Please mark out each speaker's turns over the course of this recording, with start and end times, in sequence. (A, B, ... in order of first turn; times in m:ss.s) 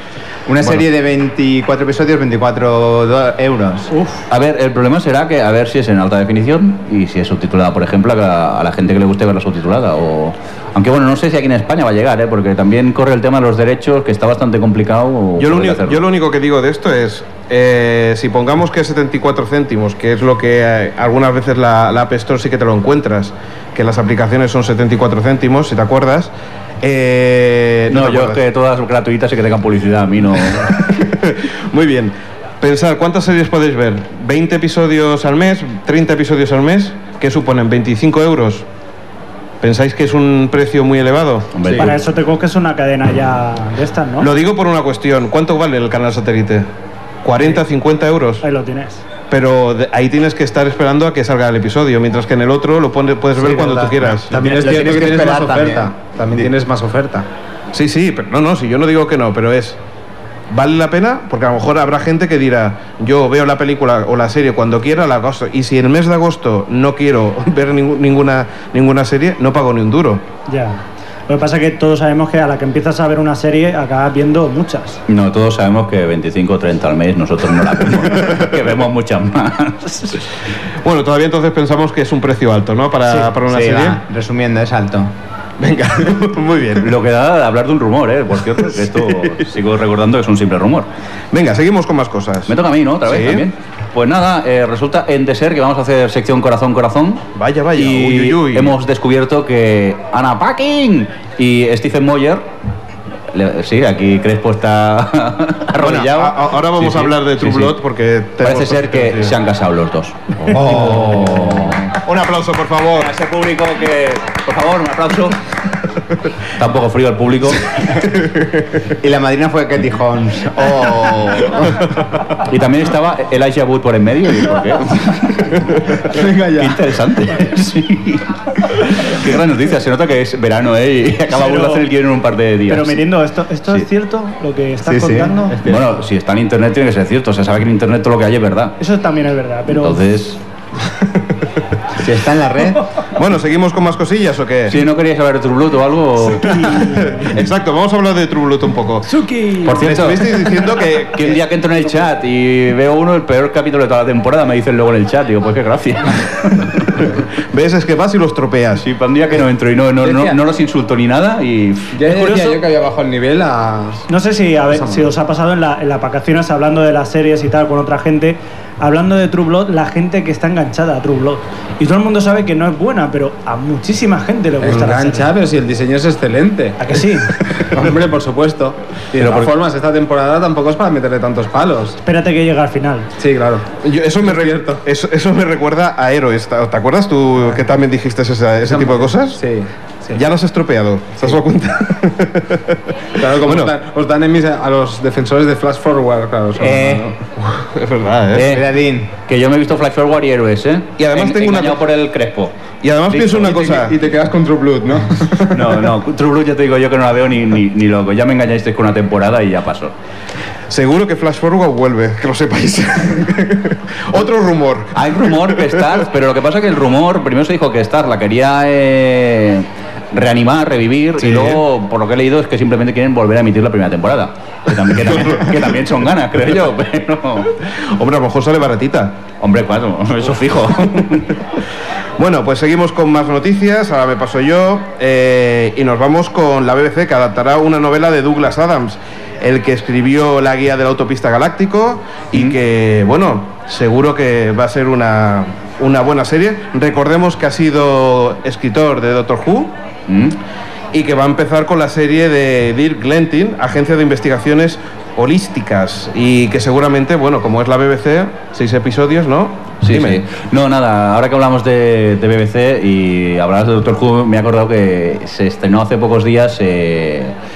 0:00.4-0:03.9 A
0:03.9-0:04.2 B
0:04.3-0:16.0 C
0:15.4-0:26.3 D
0:26.8-0:28.4 D
0:27.9-0:30.7 C
0:30.7-0:38.6 D
0:39.6-0:41.9 D
0:41.5-0:41.9 C
0:41.8-0:44.3 B
0:44.2-0:46.7 D
0:47.2-0:48.4 D
0:48.4-0:49.0 B
0:49.3-0:54.4 D
0:53.4-0:57.2 E
0:54.4-0:55.9 A
0:57.7-0:59.8 D
1:00.5-1:10.2 D
1:10.5-1:15.0 B
1:15.1-1:20.2 C
1:20.8-1:24.0 D
1:23.4-1:25.1 A
1:25.6-1:26.9 D
1:26.8-1:30.9 C
1:28.7-1:29.4 D
1:31.3-1:32.5 D
1:32.5-1:37.2 C
1:33.0-1:33.4 D
1:37.4-1:38.7 D
1:37.8-1:42.4 C
1:43.3-1:47.8 C
1:45.8-1:49.3 D
1:48.4-1:51.8 C
1:50.4-1:53.1 D
1:53.0-1:55.4 C
1:56.6-1:57.6 C
1:58.9-2:01.8 A
2:02.5-2:13.0 C
2:06.1-2:06.8 E
2:11.3-2:11.8 B
2:12.7-2:15.6 B
2:14.8-2:15.5 A
2:15.6-2:18.8 C
2:18.8-2:20.0 B
2:19.7-2:20.4 C
2:22.0-2:22.9 A
2:23.2-2:24.8 D
2:24.7-2:26.8 C
2:26.4-2:27.2 B
2:26.7-2:29.1 D
2:29.2-2:29.7 B
2:29.6-2:37.0 C
2:29.6-2:31.4 D
2:37.5-2:38.8 D
2:38.8-2:42.0 C
2:40.0-2:40.4 E
2:41.9-2:44.0 E
2:42.1-2:42.6 B
2:44.1-2:55.3 B
2:44.7-2:45.1 E
2:54.6-2:57.0 E
2:56.8-2:57.3 B
2:57.5-3:02.0 E
2:59.2-2:59.5 C
3:02.0-3:03.1 B
3:03.2-3:03.6 E
3:03.8-3:09.4 D
3:04.2-3:04.8 E
3:08.6-3:10.2 E
3:10.1-3:12.8 D
3:13.2-3:17.1 E
3:13.3-3:13.7 D
3:16.6-3:17.1 A
3:17.4-3:18.6 D
3:18.3-3:18.6 C
3:18.4-3:19.1 A
3:19.2-3:22.5 C
3:21.0-3:21.8 D
3:22.8-3:24.0 D
3:23.1-3:23.4 C
3:23.4-3:25.8 E
3:25.5-3:29.9 C
3:30.7-3:36.0 D
3:34.9-3:47.5 C
3:41.2-3:41.6 D
3:45.0-3:45.6 D
3:47.9-3:49.2 D
3:49.4-3:51.3 C
3:52.2-4:09.7 D
4:10.1-4:10.4 C
4:10.9-4:20.2 D
4:19.8-4:27.3 C